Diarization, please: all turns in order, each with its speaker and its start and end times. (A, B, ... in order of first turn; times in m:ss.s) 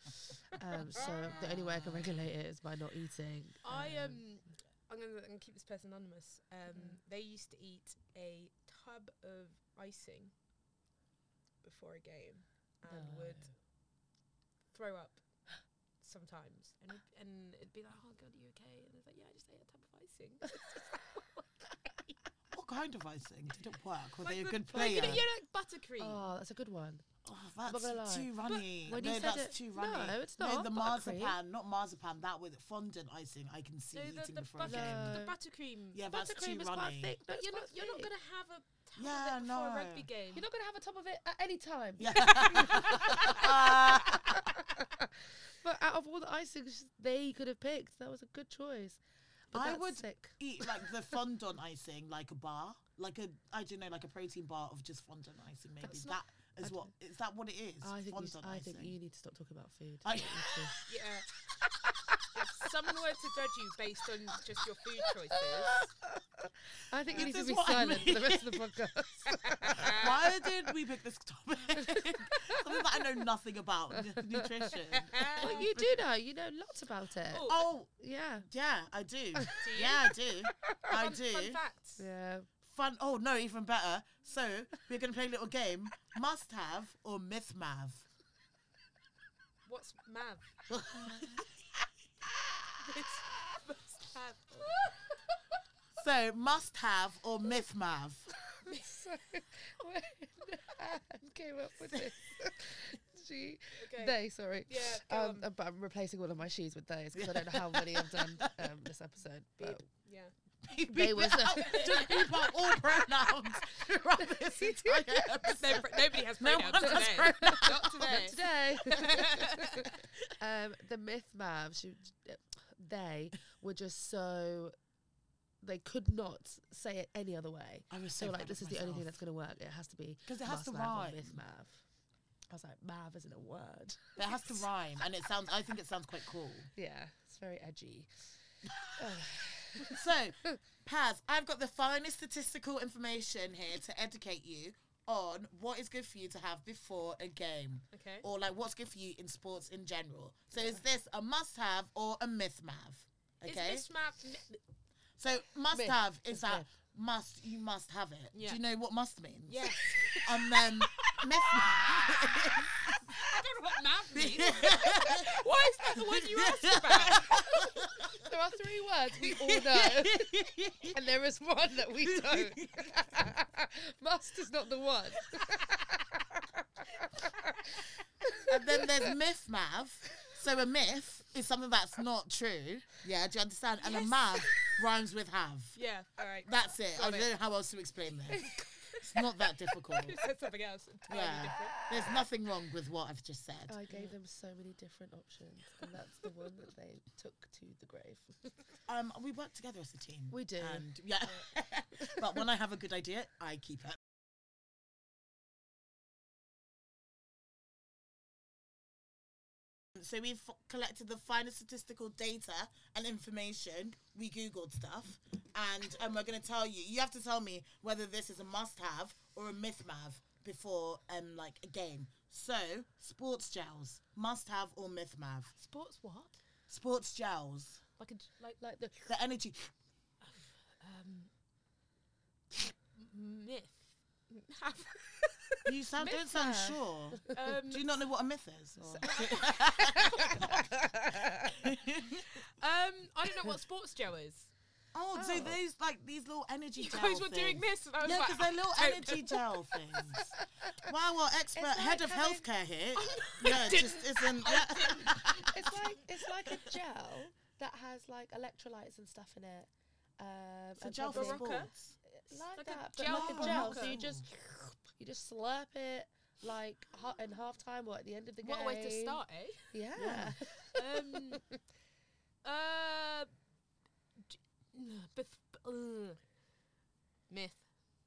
0:00.4-0:04.2 A
0:00.8-0:01.1 B
0:01.2-0:02.3 C
0:03.6-0:10.3 B
0:11.6-0:13.5 B
0:12.8-0:13.5 A
0:14.7-0:15.2 B
0:16.0-0:22.1 B
0:22.5-0:25.2 C
0:24.2-0:26.3 B
0:24.7-0:25.2 A
0:26.0-0:27.1 A
0:27.2-0:35.2 C
0:27.6-0:28.3 A
0:28.4-0:29.3 B
0:28.8-0:31.4 A
0:33.9-0:36.0 B
0:34.6-0:35.4 A
0:35.9-0:37.2 C
0:36.1-0:38.1 A
0:37.3-0:40.4 B
0:39.0-0:40.1 C
0:40.3-0:50.9 A
0:42.0-0:44.5 C
0:42.4-0:43.5 B
0:49.5-0:58.9 C
0:55.8-0:56.1 A
0:57.8-1:00.8 A
1:00.0-1:00.9 C
1:00.9-1:01.3 B
1:02.3-1:05.9 B
1:05.3-1:10.5 A
1:07.1-1:08.8 C
1:09.4-1:10.1 B
1:09.7-1:15.9 C
1:11.8-1:12.8 A
1:14.0-1:14.7 A
1:14.9-1:15.7 B
1:15.3-1:18.5 A
1:17.3-1:17.6 B
1:17.4-1:21.6 C
1:19.3-1:19.6 A
1:19.5-1:20.1 B
1:20.8-1:22.1 B
1:22.0-1:22.5 A
1:22.6-1:28.0 C
1:29.6-1:30.5 B
1:30.7-1:31.5 C
1:32.8-1:35.0 B
1:35.9-1:38.3 C
1:38.6-1:49.8 A
1:43.8-1:45.4 B
1:47.1-1:48.7 C
1:49.6-1:50.3 B
1:50.6-1:58.3 C
1:50.9-1:55.8 A
1:55.6-1:59.9 B
1:56.9-2:04.7 A
2:05.6-2:11.8 A
2:07.9-2:09.1 C
2:10.3-2:11.4 C
2:12.5-2:14.7 A
2:14.2-2:16.7 C
2:16.7-2:18.2 A
2:18.7-2:19.1 C
2:19.0-2:20.6 A
2:19.8-2:33.9 C
2:27.9-2:28.2 B
2:30.5-2:30.8 A
2:33.4-2:34.6 B
2:35.2-2:43.2 C
2:35.7-2:36.7 A
2:38.3-2:38.6 B
2:39.5-2:42.4 B
2:43.0-2:47.8 B
2:44.1-2:45.3 C
2:45.9-2:48.2 C
2:48.1-2:59.1 A
2:49.2-2:51.0 C
2:52.0-2:53.2 C
2:58.5-3:05.8 C
3:03.8-3:04.8 B
3:05.7-3:07.3 B
3:06.4-3:10.2 C
3:08.4-3:12.2 B
3:11.1-3:13.8 C
3:13.7-3:18.4 A
3:18.9-3:24.0 C
3:20.3-3:20.9 A
3:22.1-3:22.4 A
3:29.9-3:45.5 C
3:45.5-3:46.4 B
3:46.7-3:47.8 C
3:48.0-3:48.6 B
3:48.6-3:49.1 A
3:49.1-3:49.7 C
3:50.2-3:51.3 B
3:52.5-3:55.7 B
3:55.6-4:00.7 C
3:56.0-3:57.4 A
3:57.3-3:57.9 B
3:58.8-3:59.5 A
3:59.0-4:01.1 B
4:00.1-4:01.5 A
4:01.4-4:02.4 C
4:02.3-4:04.5 B
4:04.9-4:16.7 C
4:05.1-4:05.6 A
4:06.8-4:10.1 B
4:10.2-4:10.7 A
4:11.5-4:12.5 A
4:13.0-4:15.5 B
4:15.1-4:29.2 A
4:20.8-4:22.0 C
4:21.1-4:21.7 B
4:22.4-4:24.0 B
4:23.0-4:24.2 C
4:28.4-4:29.7 B
4:29.7-4:31.4 A
4:30.0-4:30.4 C
4:30.7-4:31.4 B
4:32.4-4:33.3 B
4:34.3-4:36.2 B
4:37.3-4:37.6 B